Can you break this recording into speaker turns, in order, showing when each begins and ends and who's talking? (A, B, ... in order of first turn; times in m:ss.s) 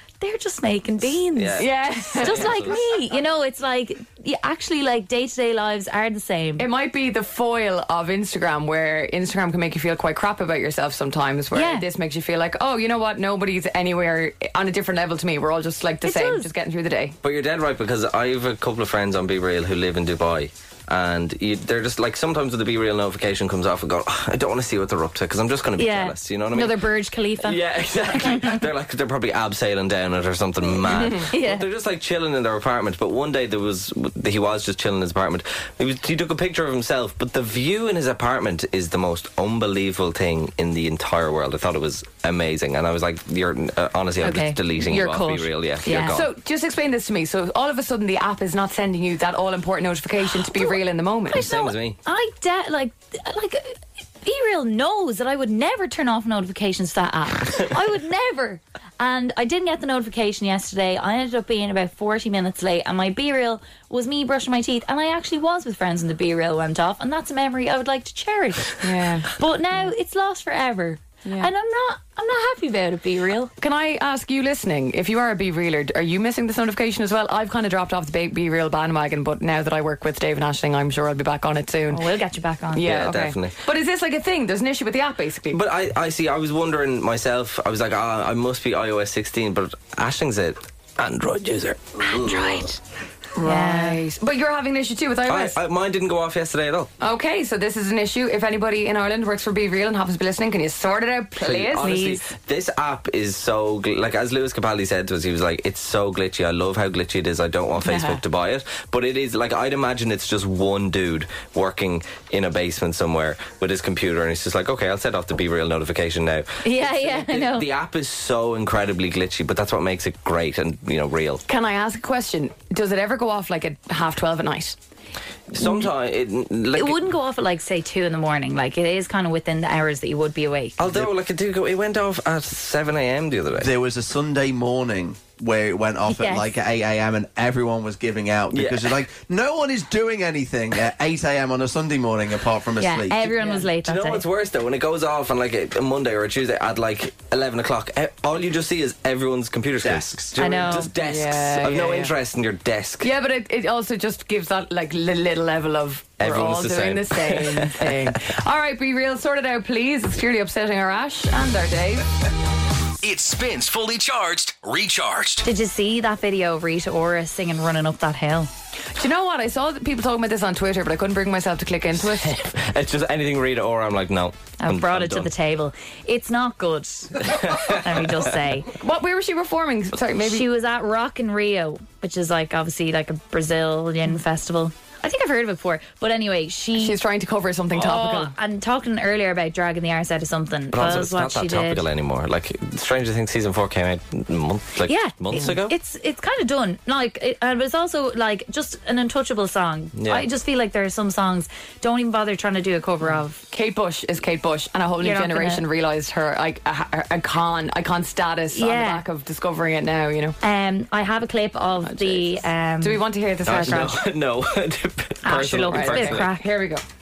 0:00.2-0:06.7 A
0:01.4-0:02.8 B
0:01.6-0:02.9 C
0:06.6-0:17.2 C
0:11.5-0:11.9 A
0:16.0-0:16.5 A
0:17.2-0:46.3 B
0:25.8-0:27.6 A
0:28.1-0:28.6 A
0:30.8-0:31.3 C
0:31.3-0:31.7 A
0:44.2-0:45.3 A
0:45.8-0:46.2 A
0:45.9-0:51.5 C
0:51.3-1:13.5 A
0:51.3-0:52.0 B
1:08.8-1:09.3 C
1:11.2-1:11.5 C
1:13.6-1:22.1 C
1:21.9-1:22.9 A
1:22.7-1:25.6 C
1:22.8-1:23.5 B
1:25.5-1:32.7 B
1:32.1-1:32.8 A
1:33.4-1:35.6 C
1:33.4-1:34.0 A
1:35.3-1:36.9 B
1:37.0-1:42.3 C
1:41.4-2:01.4 B
1:47.8-1:48.2 C
1:56.6-1:57.7 A
2:01.5-2:04.8 C
2:05.5-2:07.0 B
2:05.6-2:05.9 A
2:06.7-2:11.0 A
2:10.8-2:13.7 B
2:13.6-2:23.3 D
2:16.1-2:16.5 A
2:18.5-2:19.0 B
2:22.8-2:24.2 A
2:23.4-2:23.7 C
2:23.8-2:33.1 B
2:30.4-2:30.9 A
2:31.0-2:32.1 C
2:33.0-2:42.1 C
2:36.2-2:38.2 B
2:43.0-2:45.4 E
2:45.4-2:48.5 A
2:48.9-2:52.4 C
2:52.0-2:55.3 B
2:54.6-2:58.7 A
2:57.2-2:58.2 B
2:58.8-3:00.5 C
3:00.2-3:07.0 A
3:06.8-3:08.3 C
3:07.8-3:11.8 A
3:10.7-3:15.7 B
3:14.9-3:23.4 A
3:20.0-3:20.3 B
3:23.5-3:30.4 C
3:25.0-3:25.6 A
3:28.5-3:29.0 A
3:30.4-3:33.9 A
3:31.8-3:34.0 C
3:33.4-3:36.3 B
3:35.2-3:36.5 A
3:35.7-3:36.8 C